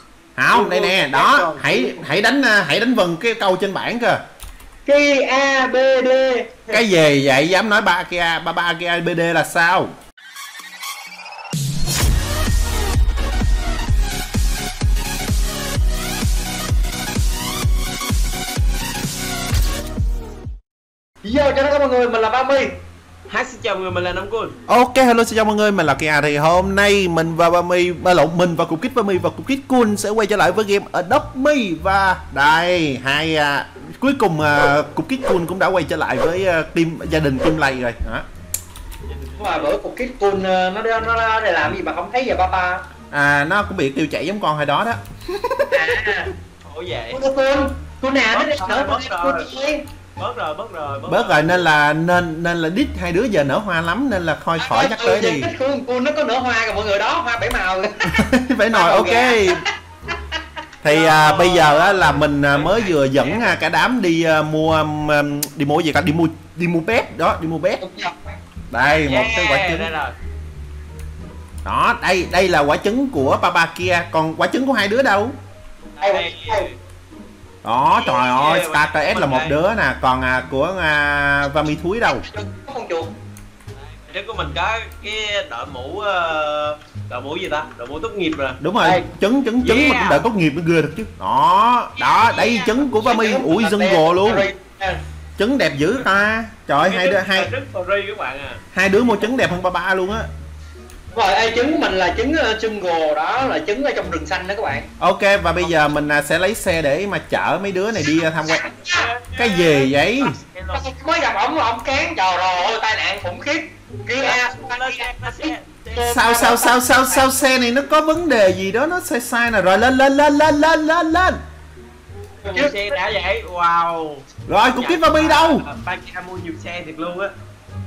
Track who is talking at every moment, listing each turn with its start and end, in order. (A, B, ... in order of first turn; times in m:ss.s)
0:00.4-0:04.2 A
0:00.5-0:01.9 B
0:04.9-0:06.6 C
0:06.7-0:09.9 A
0:21.2-0:22.7 C
0:23.3-0:24.6 B
0:24.7-0:38.3 A
0:39.1-0:39.7 B
0:39.4-0:42.8 C
0:43.1-0:46.0 A
0:45.7-0:46.3 C
0:46.6-0:47.2 B
0:47.1-0:49.8 C
0:48.3-0:49.5 B
0:50.2-0:51.6 B
0:51.1-0:55.5 A
0:54.6-0:59.7 C
0:58.1-0:59.6 A
1:00.8-1:07.8 A
1:00.9-1:03.6 B
1:07.8-1:08.2 C
1:08.7-1:09.9 A
1:09.1-1:10.1 B
1:11.6-1:15.3 A
1:16.0-1:16.8 B
1:16.0-1:16.7 C
1:17.6-1:22.2 A
1:18.0-1:19.6 B
1:22.1-1:23.1 C
1:23.8-1:29.1 B
1:28.6-1:34.5 A
1:29.6-1:30.2 B
1:32.0-1:32.8 B
1:32.8-1:35.0 C
1:35.4-1:37.5 A
1:36.8-1:38.6 B
1:38.7-1:40.3 A
1:41.1-1:44.9 C
1:45.0-1:48.6 A
1:45.6-1:45.9 B
1:48.5-1:49.1 C
1:48.9-1:50.8 B
1:49.4-1:50.4 A
1:50.7-1:57.3 C
1:54.2-1:56.2 B
1:56.1-2:01.4 A
2:02.4-2:07.3 B
2:02.5-2:02.9 C
2:04.5-2:05.6 A